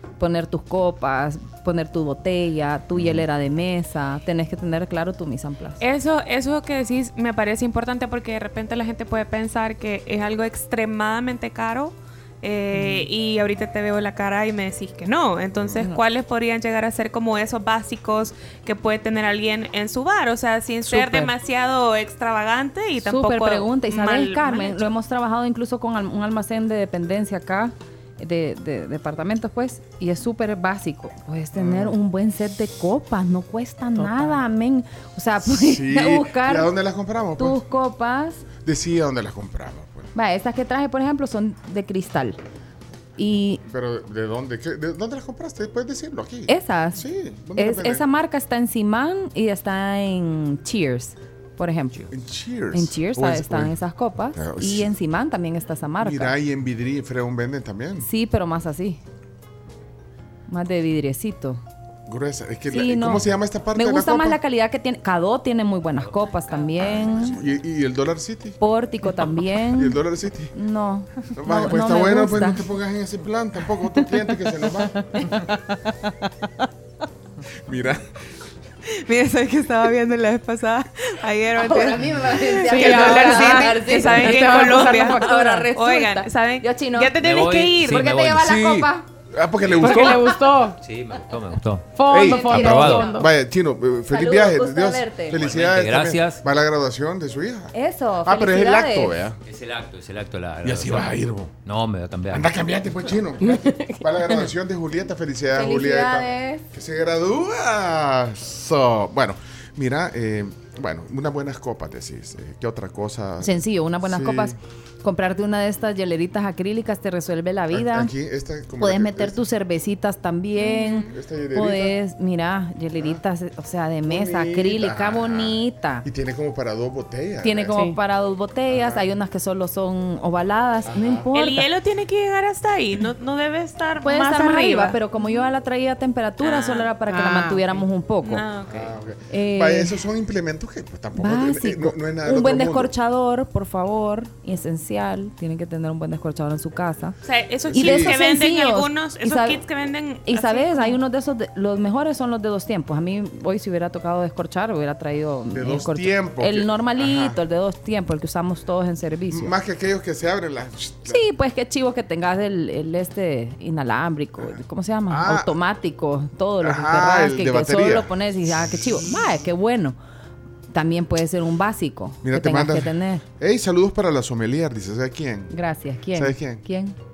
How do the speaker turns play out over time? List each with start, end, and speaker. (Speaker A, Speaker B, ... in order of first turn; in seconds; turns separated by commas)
Speaker A: 0.2-5.8, Speaker B: 5.8-24.9, Speaker A: 12.8-13.1, Speaker C: 15.6-15.8, Speaker A: 20.9-21.3, Speaker A: 23.0-36.7, Speaker C: 31.6-32.0, Speaker D: 34.0-34.4, Speaker C: 35.4-37.6, Speaker A: 37.4-38.5, Speaker C: 38.6-40.1, Speaker A: 40.1-42.4, Speaker A: 43.2-43.6, Speaker C: 43.6-48.0, Speaker A: 46.5-47.0, Speaker A: 47.6-52.1, Speaker C: 52.1-53.8, Speaker A: 52.7-56.4, Speaker C: 54.4-54.9, Speaker C: 56.0-58.1, Speaker A: 58.0-59.0, Speaker A: 60.5-61.6, Speaker C: 62.1-64.4, Speaker A: 62.7-67.3, Speaker E: 66.0-67.2, Speaker C: 67.1-68.6, Speaker A: 68.6-70.0, Speaker C: 69.7-70.5, Speaker A: 70.5-72.6, Speaker C: 71.3-75.2, Speaker A: 75.2-75.4, Speaker C: 77.7-78.1, Speaker B: 79.0-88.0, Speaker A: 81.5-87.2, Speaker D: 82.7-85.6, Speaker E: 87.2-88.7, Speaker A: 87.8-89.1, Speaker C: 88.4-90.3, Speaker E: 89.7-90.1, Speaker D: 89.8-90.8, Speaker E: 90.8-93.1, Speaker D: 92.0-93.3, Speaker C: 92.1-99.4, Speaker A: 92.2-93.2, Speaker A: 94.1-95.4, Speaker E: 95.3-96.4, Speaker A: 97.7-99.2, Speaker E: 99.5-102.5, Speaker C: 100.6-101.5, Speaker C: 102.3-114.6, Speaker D: 103.4-104.3, Speaker A: 105.5-106.6, Speaker A: 113.4-118.1, Speaker C: 117.7-119.4, Speaker A: 118.8-126.1, Speaker B: 120.6-121.1, Speaker C: 121.1-122.0, Speaker C: 124.1-127.8, Speaker A: 127.4-131.7, Speaker C: 128.7-129.1, Speaker C: 130.9-131.3, Speaker B: 131.3-135.5, Speaker A: 134.0-138.4, Speaker B: 136.4-136.9, Speaker D: 137.1-137.8, Speaker B: 138.2-138.9, Speaker C: 138.7-142.9, Speaker A: 139.3-139.9, Speaker A: 141.2-147.2, Speaker B: 147.2-151.0, Speaker C: 147.6-148.2, Speaker A: 147.7-149.6, Speaker A: 150.3-159.5, Speaker C: 155.5-157.4, Speaker C: 159.3-161.2, Speaker A: 161.1-170.0, Speaker C: 165.1-165.6, Speaker C: 166.6-169.4, Speaker A: 170.7-173.2, Speaker C: 172.2-175.5, Speaker A: 175.5-176.9, Speaker C: 176.1-176.6